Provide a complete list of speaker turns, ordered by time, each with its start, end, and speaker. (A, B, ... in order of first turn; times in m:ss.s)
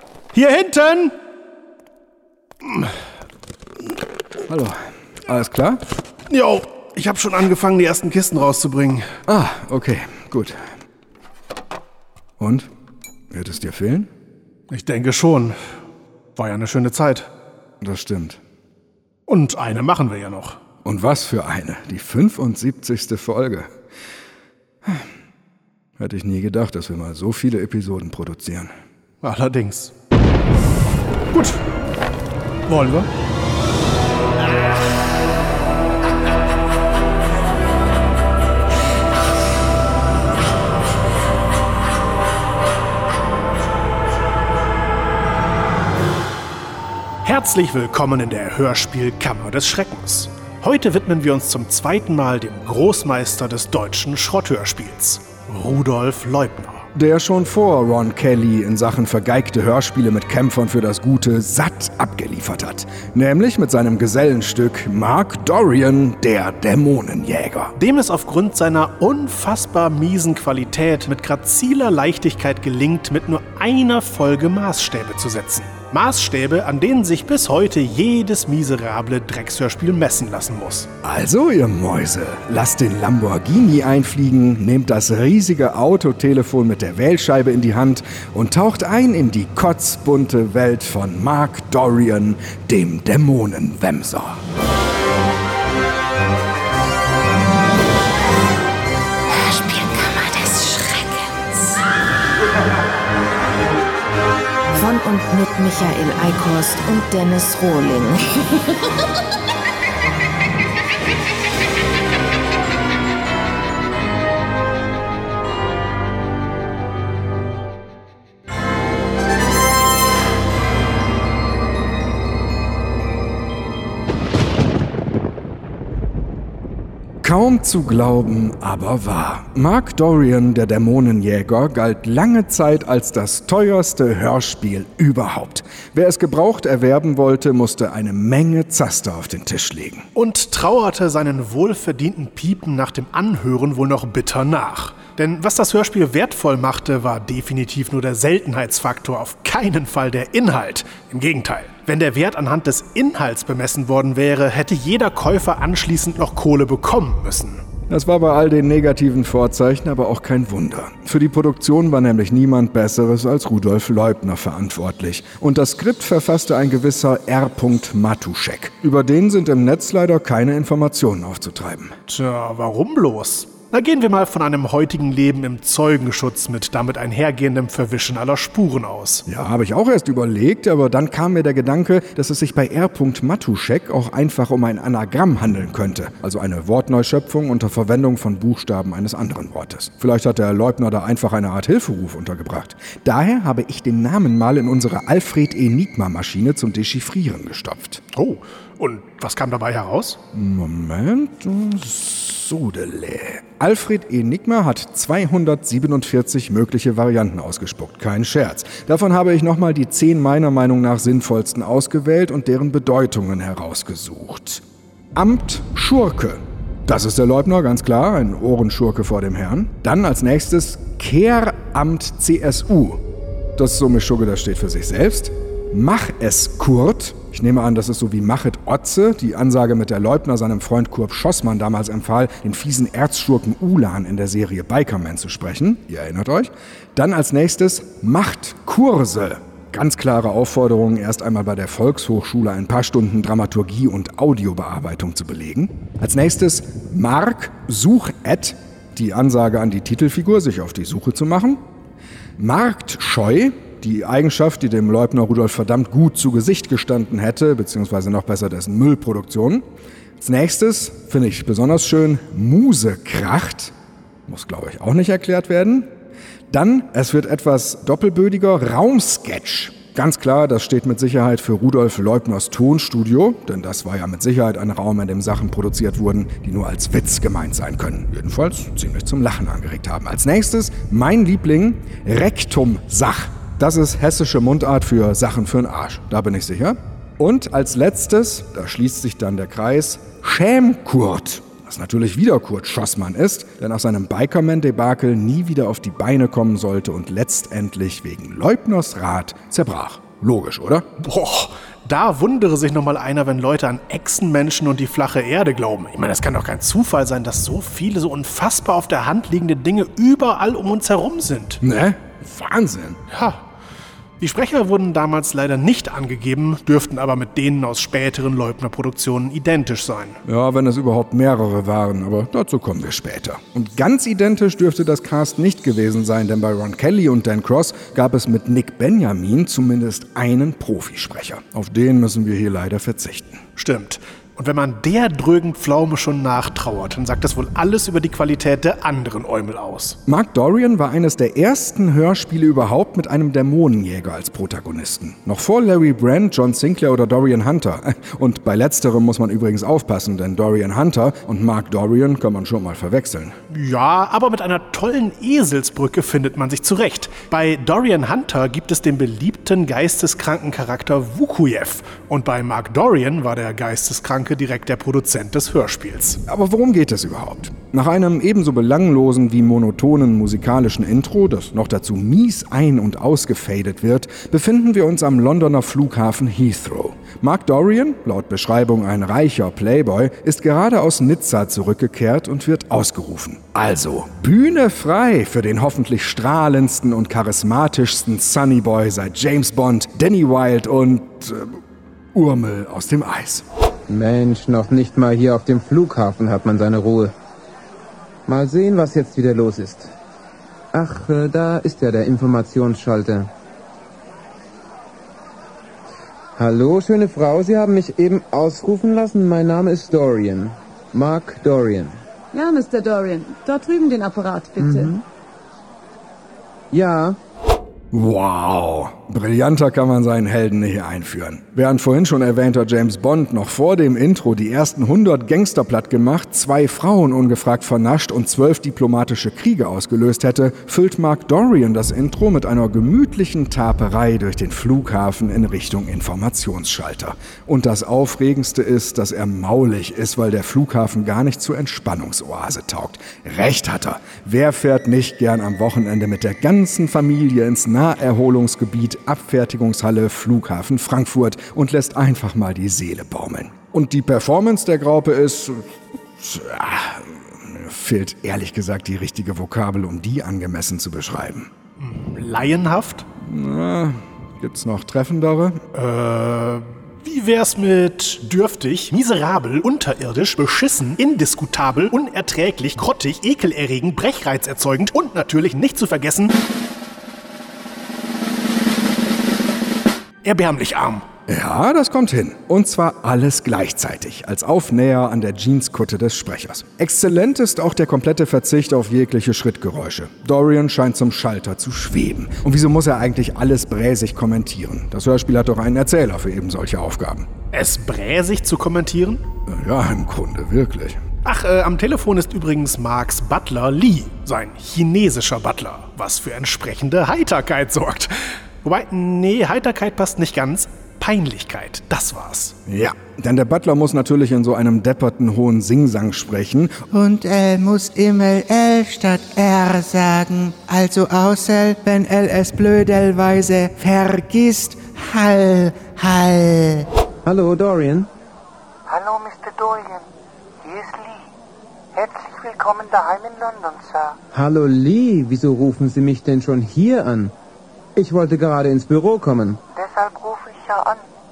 0:00.3-0:01.1 A
0:02.6-0:02.9 A
0:04.4-0:04.8 B
0:05.3-0:05.8 B
0:06.3-0:09.1 A
0:09.3-0:10.6 B
0:12.4-0:12.7 B
0:13.3-0:14.1 B
0:14.7-0:15.7 A
0:16.4-0:17.3 A
0:17.8-0:18.4 B
0:19.3-0:20.6 A
0:20.8-0:23.7 B
0:26.0-0:28.7 B
0:29.2-0:29.9 A
0:31.3-0:31.6 A
0:32.7-0:33.1 A
0:47.2-0:56.8 A
0:56.9-1:07.7 B
1:07.8-1:20.9 A
1:21.0-1:34.4 B
1:39.3-1:41.8 C
1:44.7-1:48.3 C
2:07.2-2:20.1 B
2:20.1-2:37.6 A
2:37.9-2:51.9 B
2:52.1-2:59.2 A
2:59.2-3:18.0 B
3:18.1-3:20.2 A
3:20.3-3:34.6 B
3:35.1-3:43.0 B
3:43.6-4:11.6 B
4:12.4-4:19.6 B
4:20.2-4:23.7 B
4:24.3-4:25.9 B
4:26.5-5:00.9 B
5:01.0-5:11.6 A
5:11.6-5:13.0 B
5:13.1-5:13.4 A
5:14.2-5:20.2 A
5:20.2-5:33.4 B
5:33.6-5:40.0 A
5:40.1-5:53.4 B
5:53.5-6:06.2 A
6:06.3-6:31.6 B
6:32.1-6:33.4 B
6:33.9-6:37.1 D
6:38.3-6:39.9 D
6:40.7-6:43.3 D
6:46.4-6:52.0 D
6:52.3-6:55.0 E
6:54.6-6:54.9 D
6:56.7-6:57.2 D
6:57.9-7:35.6 B
7:36.2-7:41.5 B
7:41.8-7:43.0 A
7:43.2-7:45.6 B
7:45.7-7:56.4 A
8:00.2-8:01.0 A
8:01.3-8:17.3 B
8:17.5-8:19.2 A
8:19.5-8:21.0 B
8:21.2-8:32.5 A
8:32.6-8:36.9 B
8:36.9-8:46.9 F
8:47.2-8:48.1 D
8:48.9-8:50.0 G
8:50.6-8:51.2 G
8:51.9-8:54.2 G
8:54.3-8:57.3 D
8:58.0-8:59.6 D
8:59.7-9:01.0 G